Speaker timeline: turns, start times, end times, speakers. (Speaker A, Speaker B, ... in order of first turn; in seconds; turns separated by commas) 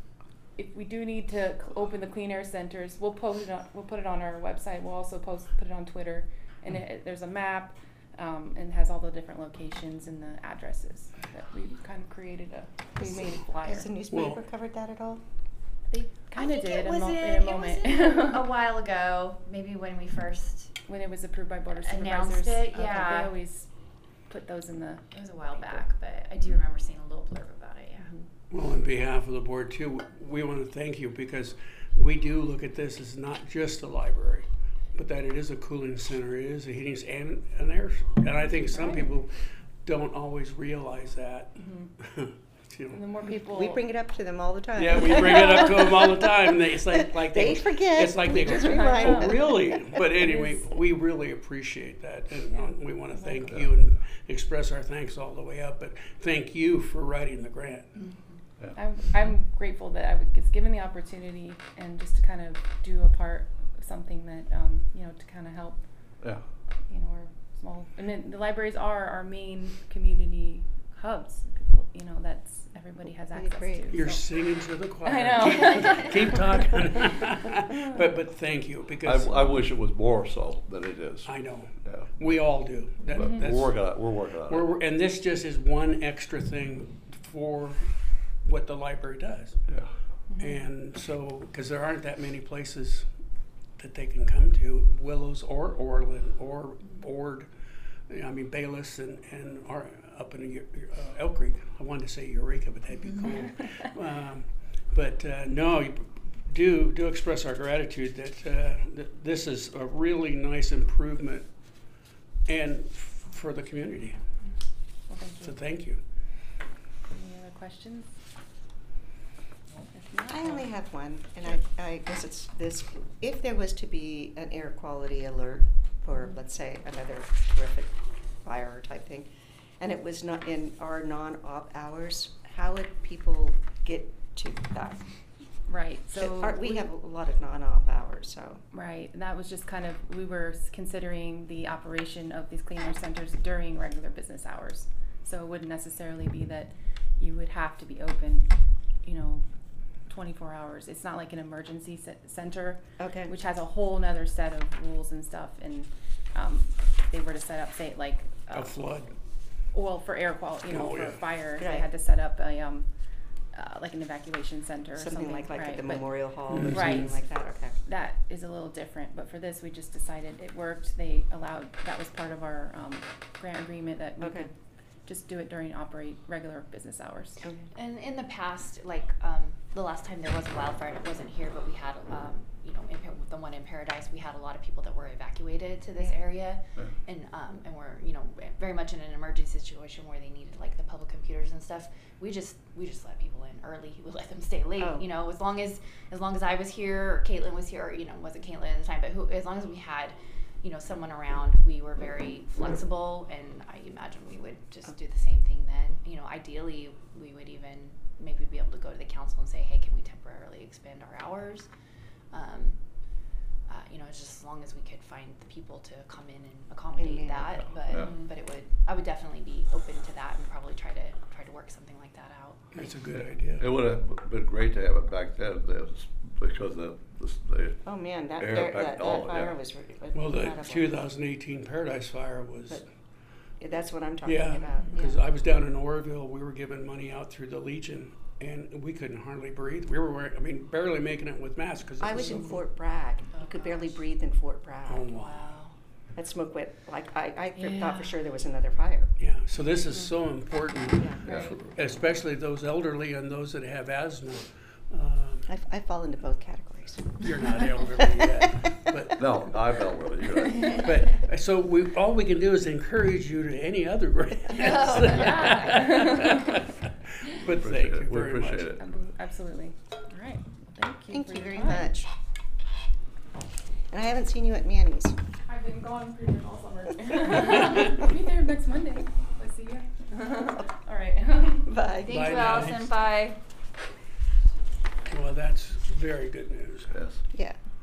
Speaker A: 0.6-13.9, Speaker B: 13.0-15.2, Speaker C: 14.1-14.4, Speaker A: 15.9-18.5, Speaker D: 16.4-20.7, Speaker A: 20.9-23.7, Speaker D: 21.8-23.3, Speaker A: 24.3-25.9, Speaker D: 25.1-28.1, Speaker C: 28.5-43.0, Speaker A: 38.7-39.1, Speaker A: 41.6-41.9, Speaker A: 42.9-43.8, Speaker B: 43.4-46.2, Speaker C: 44.8-57.9, Speaker B: 46.9-49.8, Speaker A: 48.4-49.6, Speaker A: 50.2-50.6, Speaker A: 53.1-53.5, Speaker A: 58.7-65.8, Speaker A: 66.9-74.2, Speaker B: 73.3-73.9, Speaker C: 73.9-79.5, Speaker A: 75.0-76.7, Speaker E: 79.0-81.3, Speaker C: 81.2-83.8, Speaker E: 81.8-82.1, Speaker A: 83.1-83.5, Speaker E: 83.1-84.8, Speaker C: 84.5-87.9, Speaker C: 88.4-89.6, Speaker A: 90.3-90.7, Speaker C: 90.4-93.1, Speaker C: 93.8-97.5, Speaker C: 98.1-111.5, Speaker C: 112.5-114.2, Speaker A: 115.1-115.6, Speaker C: 115.4-116.0, Speaker A: 117.1-118.1, Speaker A: 119.9-120.7, Speaker B: 120.3-129.3, Speaker B: 129.8-135.0, Speaker A: 135.7-136.9, Speaker B: 136.1-138.6, Speaker A: 138.7-148.5, Speaker A: 149.0-149.4, Speaker A: 150.1-158.8, Speaker B: 153.0-153.3, Speaker C: 158.5-159.1, Speaker A: 159.7-162.9, Speaker C: 160.7-161.2, Speaker B: 161.6-161.9, Speaker A: 163.5-167.1, Speaker B: 164.9-167.7, Speaker C: 166.5-167.1, Speaker A: 167.8-174.5, Speaker B: 174.2-174.5, Speaker A: 175.1-177.4, Speaker D: 177.7-211.7, Speaker B: 194.8-195.0, Speaker D: 212.3-212.8, Speaker D: 213.7-222.7, Speaker B: 217.0-217.6, Speaker A: 217.9-218.2, Speaker C: 222.7-223.7, Speaker E: 223.6-227.8, Speaker B: 227.8-231.0, Speaker E: 228.4-229.5, Speaker C: 230.1-232.8, Speaker B: 233.6-235.2, Speaker C: 234.2-242.6, Speaker B: 242.0-245.1, Speaker D: 243.3-244.0, Speaker C: 244.9-245.4, Speaker D: 245.1-245.7, Speaker B: 246.1-249.1, Speaker C: 249.2-255.5, Speaker B: 251.0-251.5, Speaker B: 255.5-257.2, Speaker C: 257.2-259.2, Speaker B: 258.0-258.5, Speaker E: 259.1-261.0, Speaker C: 260.7-268.7, Speaker D: 264.5-265.8, Speaker E: 267.4-268.8, Speaker A: 268.8-271.9, Speaker B: 271.1-272.1, Speaker B: 273.9-275.2, Speaker A: 275.5-281.7, Speaker B: 281.6-282.4, Speaker D: 282.0-283.4, Speaker C: 282.1-282.9, Speaker C: 285.1-286.9, Speaker E: 286.9-287.2, Speaker B: 287.3-287.6